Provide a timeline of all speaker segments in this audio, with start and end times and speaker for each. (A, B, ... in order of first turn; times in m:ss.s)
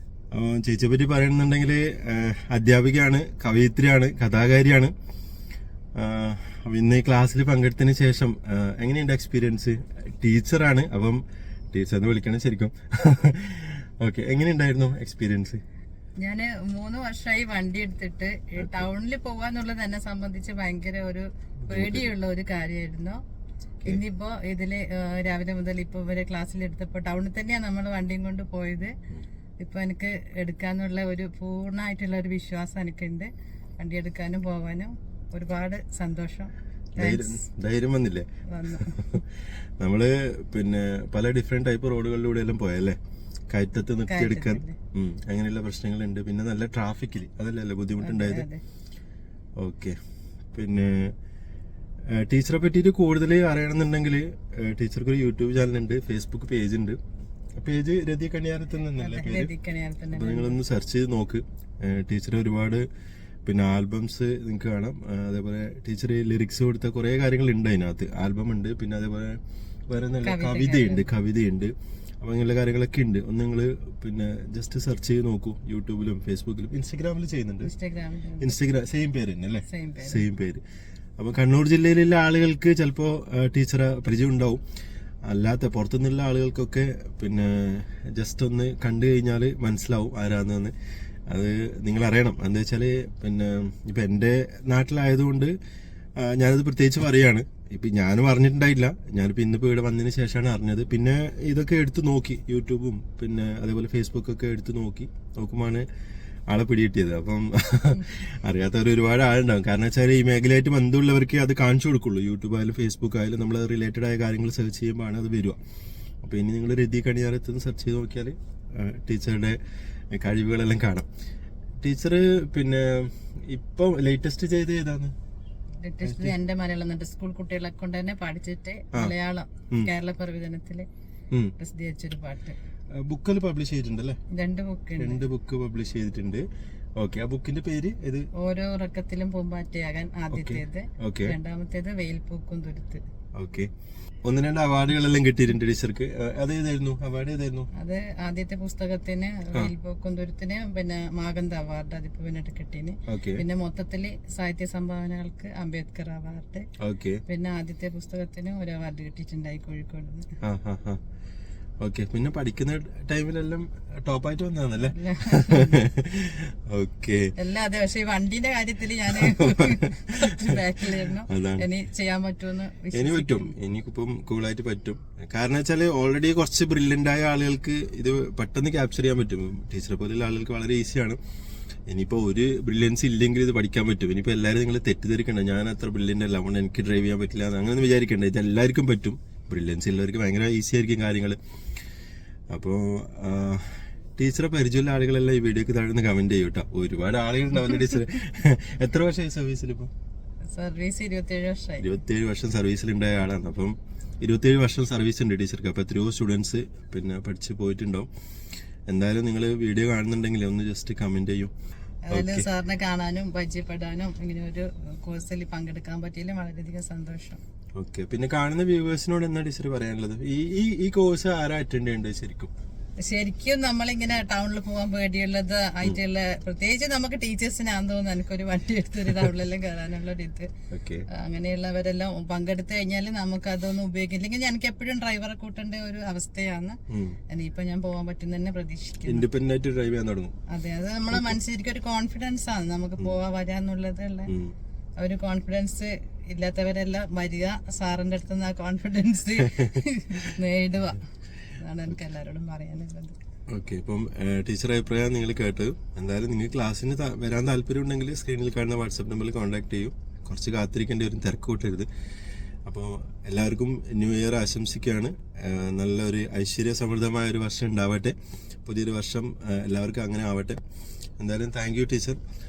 0:00.3-0:04.9 A
0:06.0-0:15.6 A
0:16.2-0:23.2 B
0:21.6-0:22.1 A
0:23.8-0:28.9 B
0:29.6-0:37.4 B
0:37.0-0:43.0 A
0:38.5-0:39.2 B
0:43.5-0:48.5 A
0:44.1-0:44.8 B
0:48.0-0:48.6 B
0:49.6-0:49.9 A
0:50.5-0:51.1 A
0:52.1-0:57.0 A
0:57.6-0:59.5 A
0:59.0-1:00.6 B
1:00.1-1:02.8 A
1:03.4-1:17.7 A
1:10.2-1:11.1 B
1:17.6-1:18.5 B
1:18.4-1:20.6 A
1:19.6-1:20.2 B
1:21.2-1:24.6 A
1:25.3-1:30.7 A
1:31.3-1:35.5 A
1:36.2-1:45.8 A
1:46.5-1:55.6 A
1:56.2-1:59.6 A
2:00.1-2:01.1 A
2:01.8-2:05.1 A
2:05.8-2:10.9 B
2:06.0-2:06.3 A
2:11.6-2:12.6 B
2:13.1-2:14.2 A
2:14.3-2:15.2 B
2:15.0-2:16.4 A
2:17.0-2:18.3 A
2:18.4-2:23.0 B
2:20.3-2:21.4 A
2:23.4-2:23.7 A
2:24.2-2:27.7 A
2:27.7-2:36.6 B
2:33.1-2:33.4 A
2:36.8-2:37.2 A
2:37.3-2:40.4 B
2:40.4-2:41.0 A
2:41.8-2:47.3 A
2:44.8-2:45.8 B
2:47.4-2:53.5 B
2:49.1-2:51.7 A
2:52.9-3:01.2 A
3:01.9-3:11.4 A
3:12.5-3:19.9 A
3:20.5-3:21.9 B
3:21.8-3:28.1 A
3:28.9-3:31.5 A
3:32.1-3:37.4 B
3:32.1-3:32.5 A
3:37.8-3:42.5 A
3:43.0-3:50.5 B
3:50.7-3:51.0 A
3:51.1-3:59.3 B
3:56.9-3:57.2 A
3:59.0-4:00.3 A
4:00.5-4:04.3 B
4:01.1-4:01.4 A
4:04.3-4:04.5 A
4:05.0-4:11.0 B
4:09.4-4:09.7 A
4:11.6-4:13.2 B
4:13.5-4:21.9 A
4:22.6-4:30.6 A
4:31.2-4:32.2 A